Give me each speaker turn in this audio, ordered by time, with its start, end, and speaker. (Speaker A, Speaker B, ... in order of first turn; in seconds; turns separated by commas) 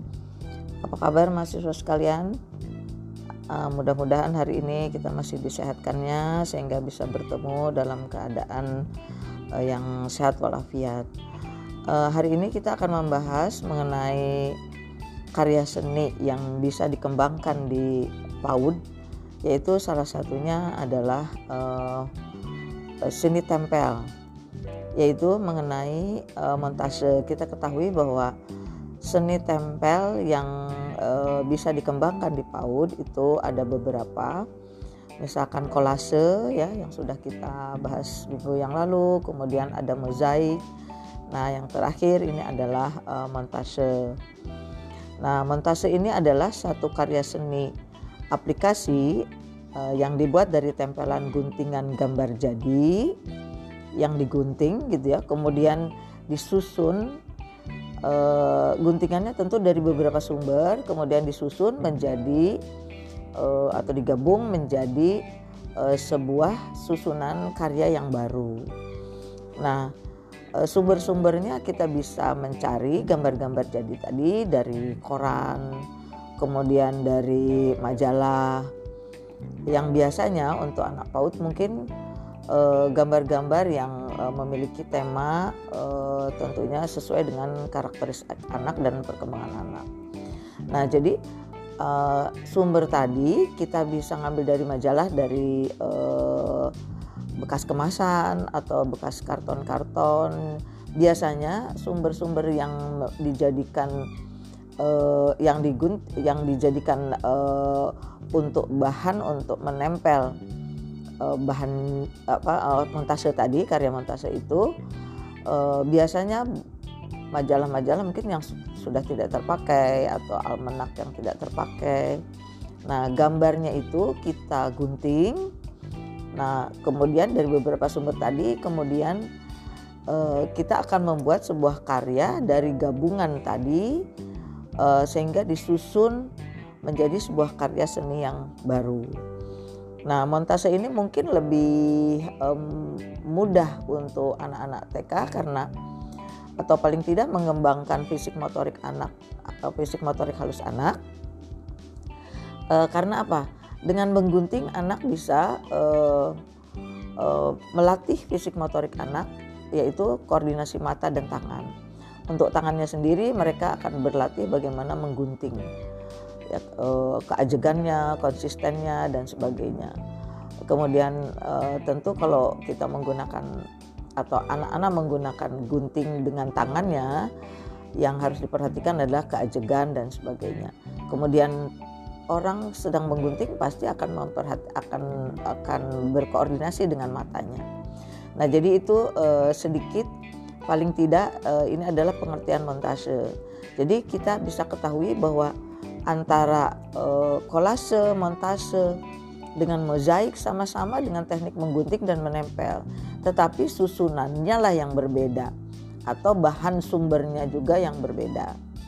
Speaker A: 0.8-2.4, Speaker A: 3.5-8.7, Speaker A: 9.5-11.1, Speaker A: 11.9-14.5, Speaker A: 15.4-18.8, Speaker A: 19.4-22.1, Speaker A: 23.0-24.1, Speaker A: 25.0-28.3, Speaker A: 29.0-34.4, Speaker A: 35.2-40.6, Speaker A: 41.3-44.2, Speaker A: 45.2-47.7, Speaker A: 48.3-49.2, Speaker A: 49.8-53.1, Speaker A: 54.0-57.1, Speaker A: 58.0-62.6, Speaker A: 63.4-65.2, Speaker A: 65.8-68.7, Speaker A: 69.6-69.9, Speaker A: 70.6-75.7, Speaker A: 76.4-78.7, Speaker A: 79.7-81.8, Speaker A: 82.5-89.8, Speaker A: 90.7-91.2, Speaker A: 91.8-96.7, Speaker A: 97.4-100.4, Speaker A: 101.0-103.9, Speaker A: 104.8-110.3, Speaker A: 111.2-114.6, Speaker A: 115.5-116.4, Speaker A: 117.3-122.2, Speaker A: 122.9-125.5, Speaker A: 126.3-129.2, Speaker A: 130.1-133.9, Speaker A: 134.8-136.3, Speaker A: 136.8-139.1, Speaker A: 140.1-145.7, Speaker A: 146.6-151.0, Speaker A: 152.7-156.4, Speaker A: 157.2-161.7, Speaker A: 162.3-165.6, Speaker A: 166.5-169.9, Speaker A: 170.7-173.5, Speaker A: 174.2-177.1, Speaker A: 178.0-181.6, Speaker A: 182.3-187.7, Speaker A: 188.4-190.1, Speaker A: 190.7-195.5, Speaker A: 196.1-199.0, Speaker A: 199.6-205.5, Speaker A: 206.1-208.6